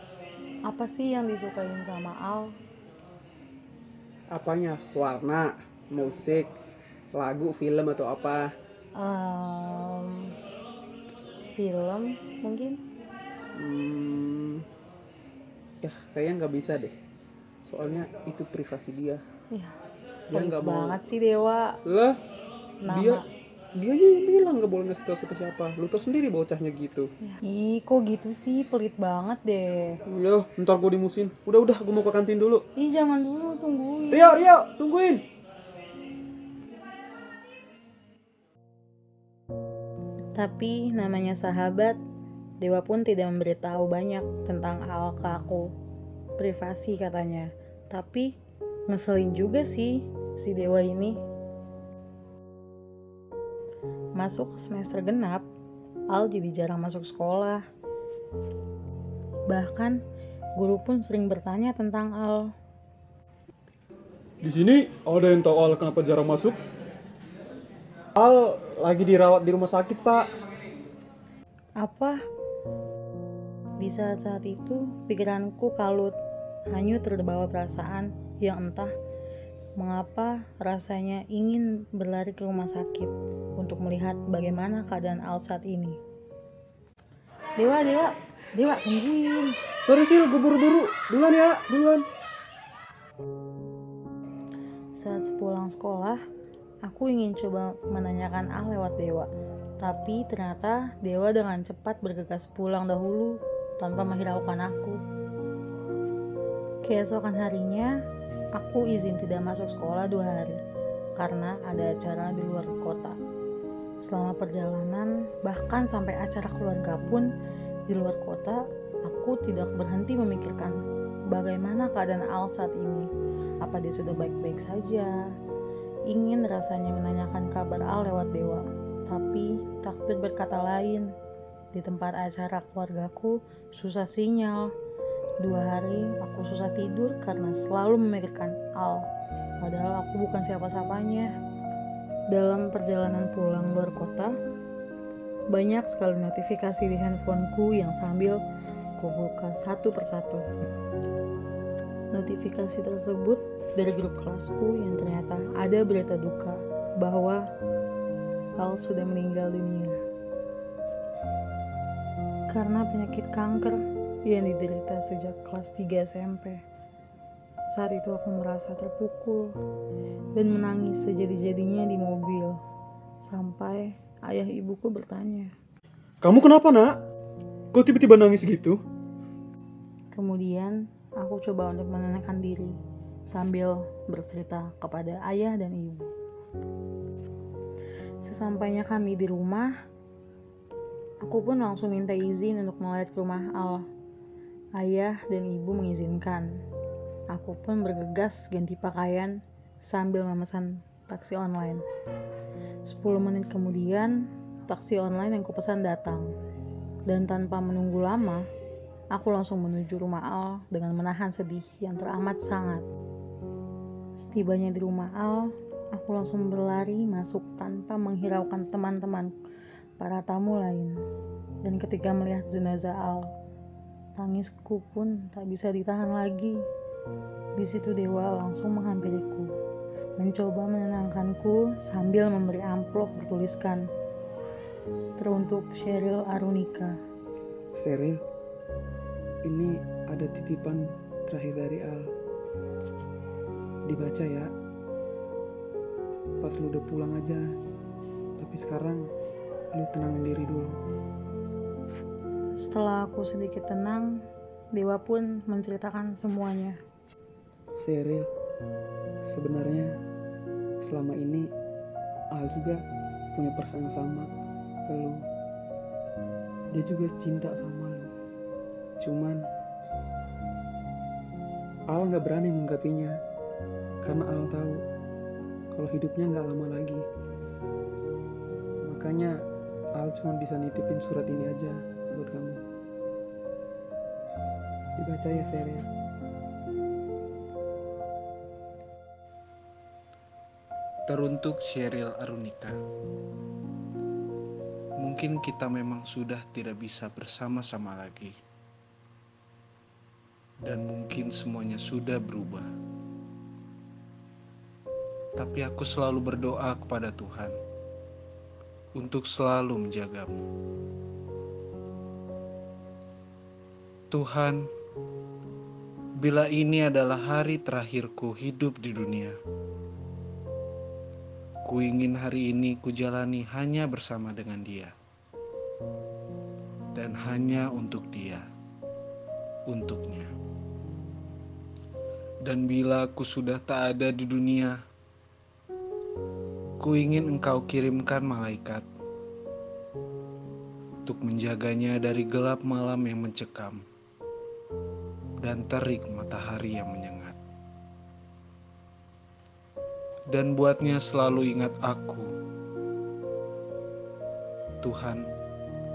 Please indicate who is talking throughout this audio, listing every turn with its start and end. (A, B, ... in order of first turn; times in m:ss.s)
0:00.7-0:02.6 A
0:04.3-0:06.5 B
0:07.2-0:08.5 B
0:08.9-0:10.3 A
0:11.5-0:12.8 A
0:13.6-0:14.6 B
0:15.8-0:16.9 B
0:17.6-0:19.2 B
0:19.5-0:19.8 A
0:20.3-0:21.0 B
0:20.3-0:21.8 A
0:21.8-0:22.2 B
0:22.8-0:23.2 A
0:22.9-0:23.2 B
0:23.8-0:27.1 B
0:27.2-0:30.0 A
0:30.1-0:32.6 B
0:32.8-0:34.4 A
0:34.1-0:35.2 B
0:40.4-0:42.0 A
0:42.6-0:45.7 A
0:46.4-0:48.3 A
0:48.9-0:51.2 A
0:54.2-0:55.5 A
0:56.1-0:57.6 A
0:59.5-1:00.0 A
1:00.6-1:02.5 A
1:04.4-1:06.6 B
1:08.2-1:10.3 B
1:11.8-1:12.2 A
1:13.8-1:16.2 A
1:16.7-1:18.9 A
1:19.8-1:26.0 A
1:27.6-1:29.6 A
1:29.9-1:32.1 B
1:35.0-1:36.2 A
1:36.8-1:45.0 A
1:46.8-1:48.0 A
1:48.6-1:50.6 A
1:51.2-1:53.2 A
1:54.0-1:57.3 A
1:57.9-2:03.1 A
2:03.6-2:05.2 A
2:06.1-2:11.1 A
2:11.7-2:14.7 A
2:15.4-2:19.1 A
2:19.6-2:21.3 A
2:22.3-2:24.4 A
2:25.5-2:28.4 A
2:29.0-2:30.5 A
2:32.1-2:37.4 A
2:38.6-2:40.0 A
2:42.5-2:46.6 A
2:47.7-2:49.5 A
2:50.3-2:52.6 A
2:53.2-2:55.5 A
2:56.2-2:57.0 B
2:57.7-2:58.8 B
3:00.1-3:02.8 A
3:03.3-3:06.1 A
3:08.2-3:09.7 A
3:11.2-3:13.8 A
3:14.8-3:16.6 A
3:17.3-3:21.8 A
3:22.8-3:26.3 A
3:27.1-3:28.5 A
3:29.1-3:32.8 A
3:34.2-3:39.3 A
3:40.0-3:40.9 A
3:41.6-3:43.3 A
3:44.2-3:46.6 A
3:47.6-3:49.5 A
3:50.2-3:53.9 A
3:55.2-3:57.0 A
3:57.7-3:58.2 B
3:59.5-4:02.1 B
4:03.9-4:04.5 B
4:06.4-4:07.5 B
4:08.4-4:09.0 B
4:09.7-4:10.8 B
4:12.6-4:14.1 A
4:14.7-4:16.8 A
4:17.8-4:18.3 B
4:19.3-4:19.9 B
4:20.8-4:21.5 B
4:22.3-4:22.8 B
4:23.4-4:24.3 B
4:24.9-4:25.2 B
4:26.7-4:28.1 B
4:29.0-4:29.4 B
4:31.9-4:33.2 B
4:34.0-4:34.8 B
4:35.7-4:37.0 B
4:38.8-4:39.4 B
4:40.0-4:42.6 B
4:45.0-4:45.9 B
4:51.1-4:52.8 C
4:55.0-4:58.4 C
5:00.6-5:02.7 C
5:05.4-5:07.6 C
5:09.0-5:10.4 C
5:14.1-5:14.7 C
5:16.2-5:19.4 C
5:21.7-5:24.9 C
5:27.0-5:28.4 C
5:29.7-5:30.3 C
5:32.4-5:34.8 C
5:36.8-5:38.8 C
5:41.1-5:43.8 C
5:45.4-5:47.4 C
5:50.3-5:52.3 C
5:54.8-5:55.2 C